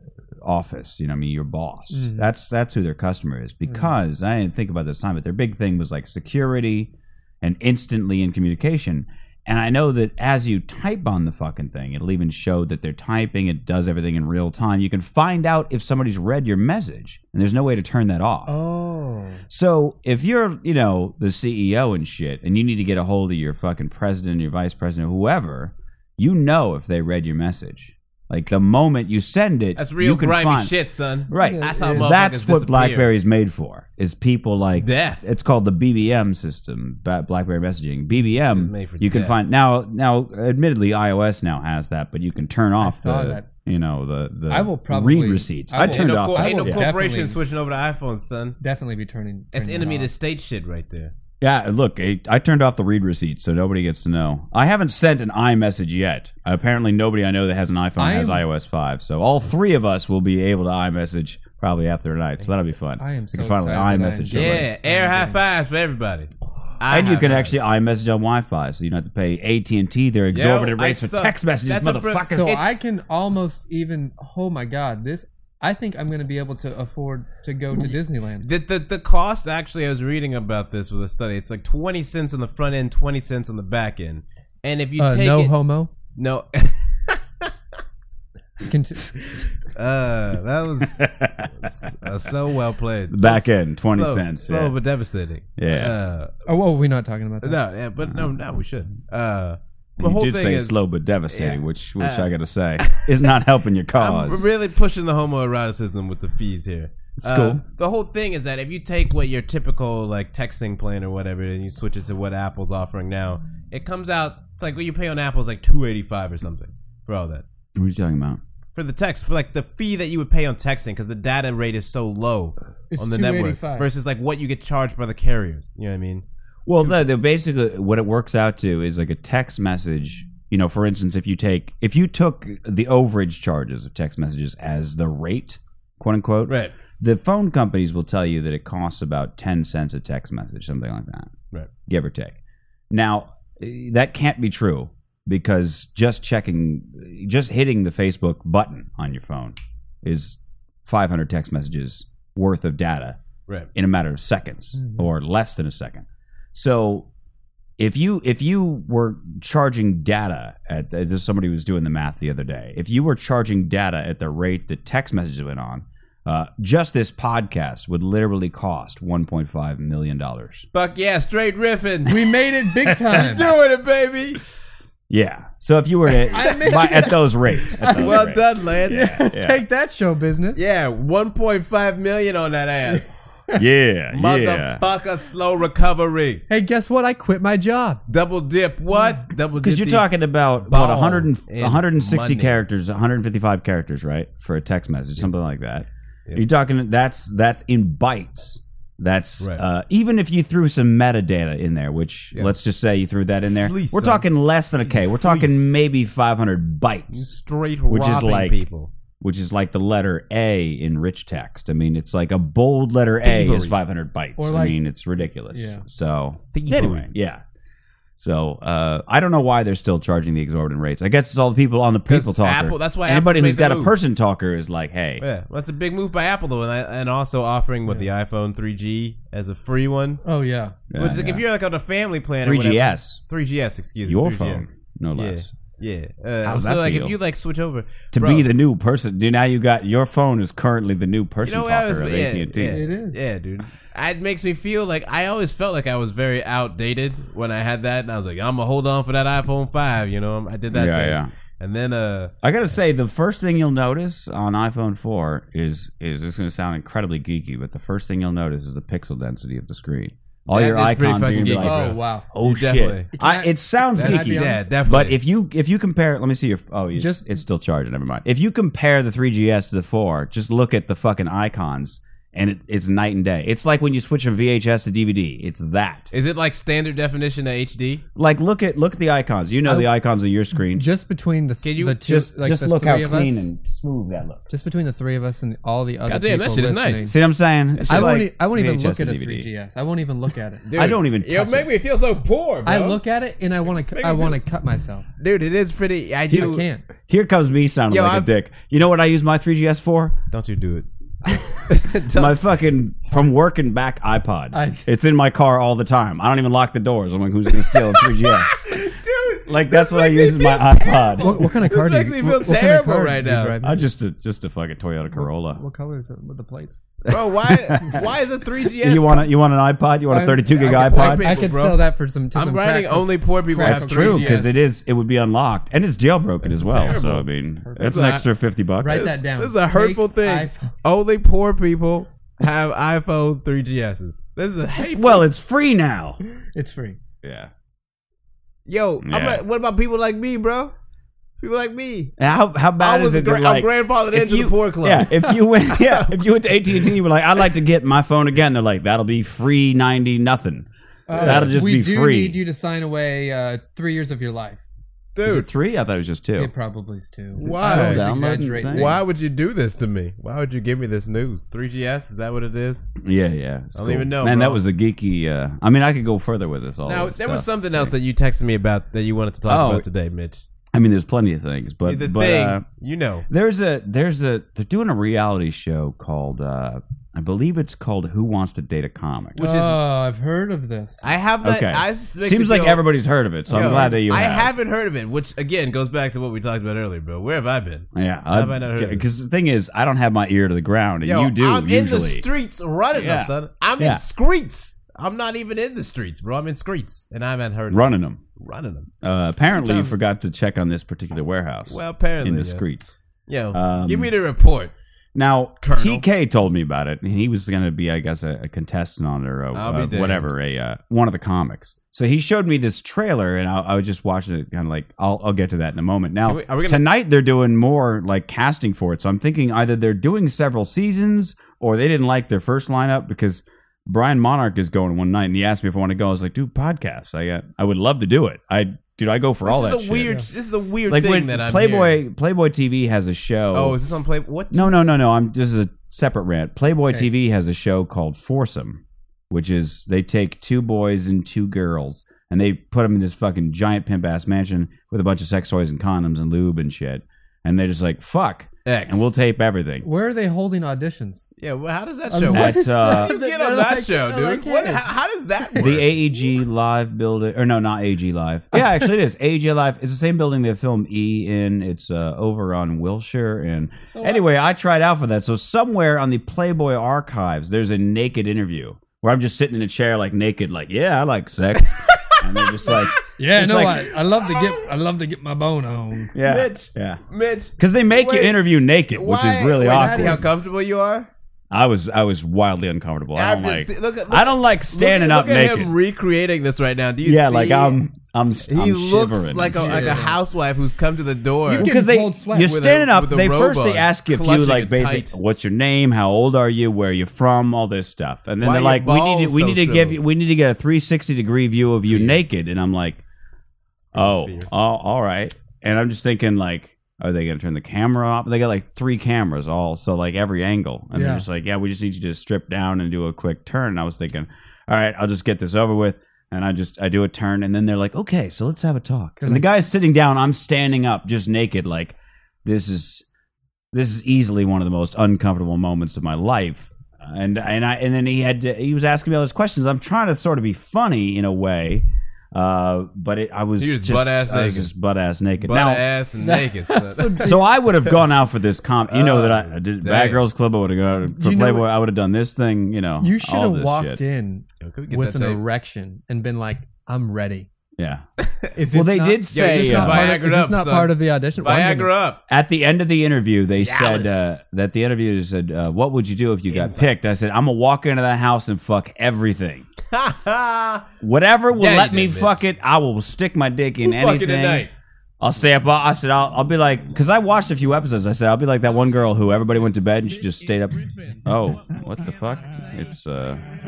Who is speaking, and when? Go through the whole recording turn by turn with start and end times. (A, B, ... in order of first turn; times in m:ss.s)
0:00.4-0:18.5 A
0:01.9-0:02.3 B
0:03.7-0:03.9 B
0:18.5-0:19.4 B
0:19.5-0:30.7 A
0:29.8-0:33.1 C
0:31.3-0:46.9 A
0:31.4-0:32.0 B
0:34.8-0:35.3 C
0:38.4-0:39.4 C
0:42.8-0:43.5 B
0:44.5-0:47.4 B
0:45.8-0:48.6 C
0:48.6-0:50.1 B
0:49.5-0:51.1 C
0:51.4-1:04.7 A
0:58.0-0:58.4 B
1:03.0-1:05.4 B
1:04.3-1:07.6 C
1:06.9-1:12.6 A
1:10.3-1:12.8 C
1:12.3-1:18.5 B
1:17.8-1:25.5 C
1:25.0-1:25.9 B
1:26.2-1:27.5 C
1:28.7-1:29.0 B
1:29.7-1:36.3 C
1:30.9-1:31.9 A
1:33.1-1:34.8 A
1:35.6-1:36.0 A
1:36.4-1:37.6 B
1:37.4-1:43.3 C
1:38.1-1:38.3 A
1:40.0-1:44.5 A
1:43.9-1:57.4 C
1:47.2-1:47.6 A
1:57.8-1:58.4 A
1:58.8-2:06.2 C
2:02.9-2:03.9 B
2:06.6-2:21.3 A
2:16.5-2:16.7 C
2:21.9-2:22.4 A
2:22.9-2:33.2 A
2:33.7-2:37.1 A
2:37.8-2:50.6 A
2:50.7-2:52.3 C
2:52.1-2:53.5 B
2:52.9-2:54.4 C
2:55.1-2:59.6 A
2:56.3-2:58.3 B
2:57.9-2:59.2 C
2:58.9-3:00.6 B
3:00.6-3:03.2 C
3:03.6-3:04.8 A
3:04.1-3:06.4 C
3:06.5-3:08.0 B
3:08.1-3:10.1 C
3:09.6-3:27.3 A
3:10.7-3:12.6 C
3:23.4-3:24.2 C
3:24.9-3:25.7 C
3:27.1-3:28.9 C
3:27.9-3:28.6 A
3:29.2-3:37.4 A
3:33.2-3:33.7 C
3:34.4-3:35.8 B
3:36.5-3:37.1 C
3:38.2-3:45.2 A
3:42.1-3:43.9 C
3:45.2-3:50.2 C
3:50.2-3:50.8 B
3:50.9-3:51.4 A
3:51.0-3:58.5 C
3:52.4-3:53.2 A
3:54.0-3:55.5 A
3:56.4-3:57.2 A
3:58.1-4:02.8 A
4:01.4-4:12.3 C
4:02.7-4:03.2 B
4:10.7-4:11.3 A
4:12.4-4:36.1 A
4:20.5-4:23.1 C
4:21.6-4:22.3 B
4:23.1-4:24.7 B
4:24.0-4:25.2 C
4:27.0-4:27.4 B
4:36.1-4:38.0 C
4:38.2-4:40.8 A
4:40.6-4:43.5 B
4:41.6-4:42.1 C
4:42.0-4:44.5 A
4:44.5-4:47.1 B
4:46.0-4:47.2 C
4:47.0-4:49.5 A
4:47.8-4:48.2 C
4:47.9-4:50.6 B
4:50.6-4:53.0 C
4:50.7-4:51.7 A
4:52.6-4:55.0 B
4:53.9-4:54.4 C
4:55.2-4:56.6 C
4:56.3-4:56.8 B
4:57.1-5:00.2 A
4:57.9-4:58.3 C
5:00.3-5:02.4 C
5:02.1-5:08.8 A
5:04.5-5:04.8 B
5:07.7-5:13.6 C
5:09.4-5:11.5 A
5:11.2-5:13.8 B
5:13.6-5:15.6 A
5:15.1-5:16.8 B
5:17.0-5:18.0 A
5:17.1-5:19.3 C
5:18.8-5:21.4 A
5:20.1-5:24.6 B
5:20.6-5:24.6 C
5:23.6-5:29.1 A
5:26.4-5:27.1 B
5:26.6-5:27.2 C
5:27.6-5:28.1 B
5:27.8-5:28.2 C
5:28.8-5:30.7 B
5:28.9-5:35.2 C
5:34.8-5:36.2 A
5:36.5-5:37.0 B
5:37.2-5:37.5 A
5:38.6-5:40.7 C
5:39.0-5:39.4 A
5:41.4-5:42.1 C
5:42.2-5:52.4 A
5:42.8-5:46.1 C
5:51.1-5:54.6 B
5:51.1-5:51.5 C
5:55.2-5:55.5 C
5:55.2-5:56.5 A
5:56.4-5:59.0 B
5:57.4-5:59.0 A
5:57.4-6:02.9 C
6:03.0-6:07.9 A
6:03.7-6:04.6 C
6:06.8-6:10.4 C
6:09.4-6:09.8 A
6:10.7-6:12.6 A
6:11.8-6:13.2 C
6:13.3-6:19.4 A
6:19.4-6:19.8 C
6:19.4-6:21.1 B
6:21.0-6:22.8 C
6:21.4-6:24.5 A
6:23.5-6:24.0 B
6:23.5-6:29.0 C
6:27.9-6:32.2 A
6:31.0-6:38.9 C
6:32.9-6:34.0 A
6:37.7-6:38.2 A
6:39.0-6:42.9 A
6:39.5-6:40.0 C
6:41.7-6:42.6 C
6:43.3-6:44.7 C
6:43.5-6:44.1 A
6:45.1-7:10.2 A
6:45.6-6:46.0 C
6:49.5-6:50.3 C
6:56.2-6:56.8 C
7:09.4-7:12.0 C
7:10.9-7:13.8 A
7:13.5-7:14.9 C
7:14.5-7:29.8 A
7:28.6-7:29.1 C
7:29.8-7:31.3 B
7:31.4-7:36.0 C
7:32.1-7:34.8 B
7:32.3-7:33.1 A
7:35.6-7:53.9 A
7:43.9-7:44.2 B
7:51.8-7:52.9 C
7:53.2-7:56.1 B
7:56.1-7:57.0 A
7:56.2-7:58.4 C
7:57.6-8:00.3 A
7:58.9-8:01.1 C
7:59.7-8:00.3 B
8:01.5-8:05.7 A
8:03.1-8:07.8 C
8:07.0-8:10.1 A
8:08.5-8:11.7 C
8:09.6-8:10.2 B
8:11.5-8:12.5 B
8:11.5-8:23.0 A
8:12.4-8:15.1 C
8:18.4-8:20.0 C
8:21.8-8:22.2 C
8:23.9-8:24.5 C
8:23.9-8:43.0 A
8:30.9-8:31.2 B
8:39.2-8:39.5 B
8:43.7-8:55.8 A
8:53.6-8:54.7 C
8:55.4-8:57.4 C
8:56.2-8:57.3 B
8:57.2-9:04.0 A
8:58.9-9:00.2 C
9:01.1-9:01.7 B
9:03.0-9:07.5 B
9:04.6-9:05.4 C
9:07.8-9:08.0 A
9:08.6-9:11.9 B
9:08.7-9:10.2 A
9:09.3-9:12.2 C
9:12.3-9:19.7 A
9:13.5-9:14.4 C
9:16.5-9:17.1 C
9:19.9-9:20.8 C
9:21.0-9:24.7 A
9:21.6-9:22.4 C
9:23.8-9:24.7 C
9:25.2-9:33.5 A